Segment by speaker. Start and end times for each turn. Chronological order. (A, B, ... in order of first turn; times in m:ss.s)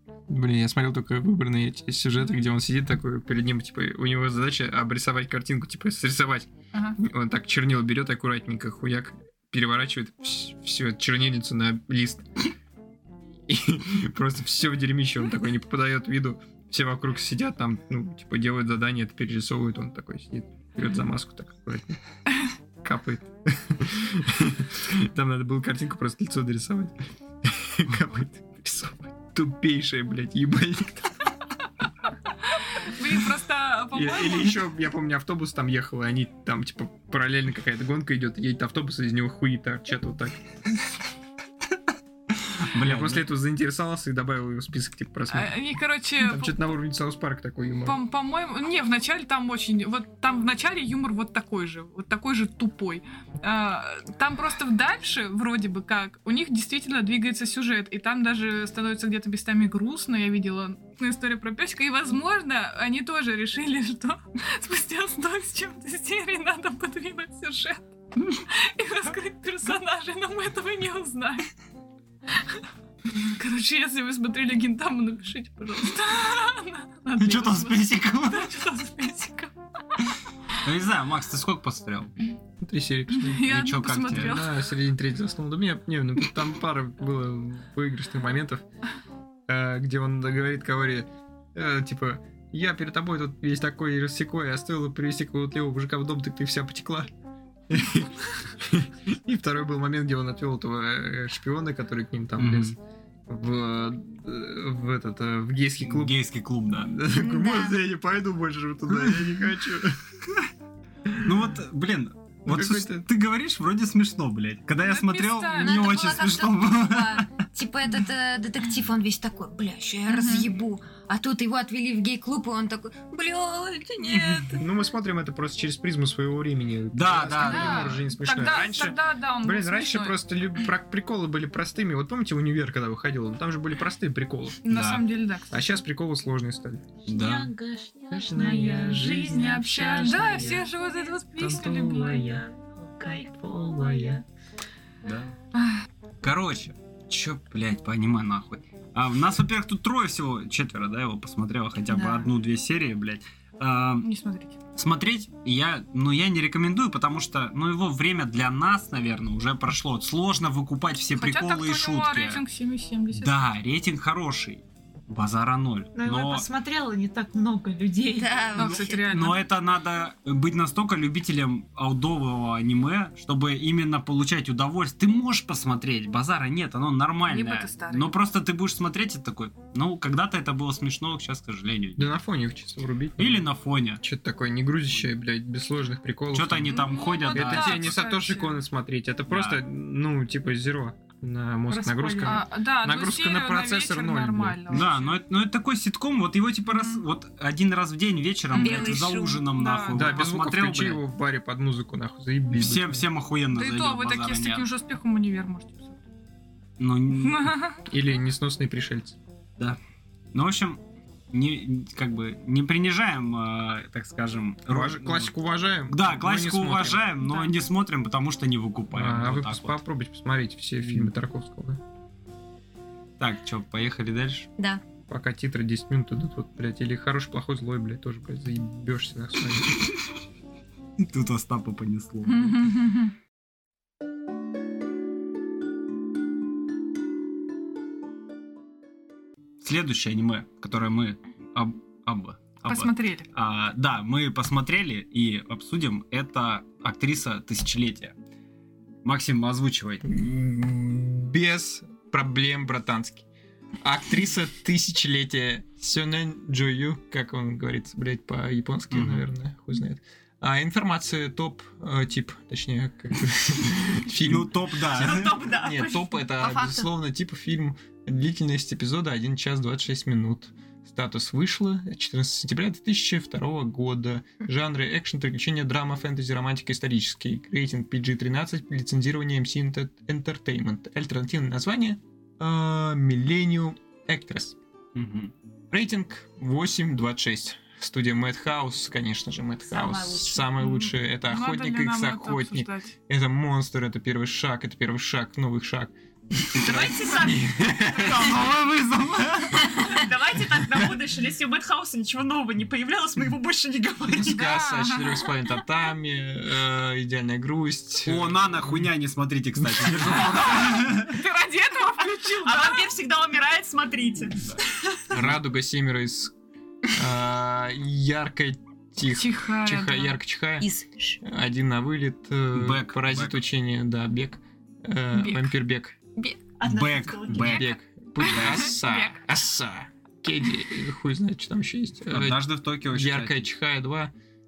0:00.3-0:12.5 A
0:06.7-0:07.0 B
0:13.5-0:22.0 A
0:22.8-0:31.2 A
0:32.8-0:34.6 B
0:33.9-0:40.5 A
0:42.4-0:43.3 C
0:42.8-0:45.6 A
0:45.3-0:46.6 B
0:46.2-0:48.0 A
0:47.8-1:11.5 B
1:12.4-1:20.0 B
1:17.2-1:18.6 C
1:20.6-1:22.1 C
1:22.6-1:28.6 A
1:23.1-1:24.7 B
1:23.4-1:24.4 C
1:29.5-1:37.1 A
1:37.7-1:42.8 A
1:42.4-1:42.8 C
1:43.3-1:46.2 A
1:45.8-1:47.0 C
1:46.7-1:50.0 A
1:47.1-1:47.8 D
1:48.9-1:49.4 C
1:51.1-1:51.4 A
1:51.2-1:57.3 C
1:52.5-1:53.0 A
1:54.8-1:56.2 B
1:55.6-2:04.6 D
2:00.1-2:00.5 B
2:04.6-2:14.6 A
2:06.9-2:08.1 C
2:07.4-2:10.2 B
2:14.6-2:15.6 B
2:14.7-2:15.0 C
2:15.5-2:16.9 A
2:17.0-2:24.2 E
2:17.1-2:17.5 C
2:18.1-2:20.7 A
2:19.3-2:22.2 B
2:21.4-2:22.4 A
2:23.4-2:24.2 A
2:25.0-2:25.3 C
2:26.2-2:34.1 C
2:31.9-2:32.3 E
2:34.0-2:34.6 B
2:34.8-2:42.4 C
2:41.2-2:43.4 B
2:43.1-2:46.5 C
2:46.0-2:48.5 E
2:48.1-2:49.1 D
2:48.6-2:49.4 B
2:48.6-3:02.1 C
2:57.3-2:58.2 B
3:02.0-3:03.5 A
3:03.2-3:04.0 C
3:04.0-3:14.8 A
3:06.3-3:08.0 C
3:06.6-3:08.6 B
3:09.3-3:09.6 C
3:11.7-3:12.4 E
3:12.2-3:15.2 B
3:14.7-3:21.0 C
3:16.7-3:17.0 B
3:18.5-3:20.2 B
3:18.5-3:19.5 D
3:19.9-3:23.1 A
3:22.5-3:24.7 C
3:23.5-3:26.0 B
3:26.8-3:27.5 C
3:27.1-3:27.8 B
3:27.9-3:29.2 A
3:30.3-3:35.3 C
3:34.7-3:37.1 A
3:35.9-3:39.8 C
3:38.9-3:41.8 A
3:40.8-3:41.1 C
3:43.2-3:44.5 C
3:45.1-3:49.8 A
3:51.0-3:52.7 C
3:52.3-3:53.1 B
3:59.6-4:08.2 C
4:02.6-4:03.3 B
4:09.0-4:10.0 C
4:10.0-4:13.2 A
4:13.8-4:44.6 A
4:18.9-4:19.3 C
4:24.2-4:25.4 C
4:25.0-4:26.2 E
4:26.4-4:26.9 D
4:45.0-4:45.3 C
4:45.7-4:58.5 A
4:49.6-4:50.7 E
4:50.6-4:52.9 B
4:56.6-4:58.2 E
4:58.0-4:59.8 C
4:59.6-5:04.6 E
5:04.1-5:08.9 A
5:04.3-5:05.4 B
5:08.0-5:11.2 C
5:09.6-5:10.8 A
5:10.4-5:12.9 B
5:12.4-5:15.1 E
5:15.1-5:16.3 A
5:16.9-5:20.7 A
5:19.0-5:20.2 B
5:20.6-5:21.2 D
5:21.2-5:26.0 A
5:22.5-5:23.4 C
5:25.1-5:25.5 B
5:26.6-5:27.7 E
5:26.6-5:27.7 C
5:27.4-5:34.1 A
5:28.2-5:29.2 B
5:28.2-5:28.7 C
5:32.1-5:33.4 C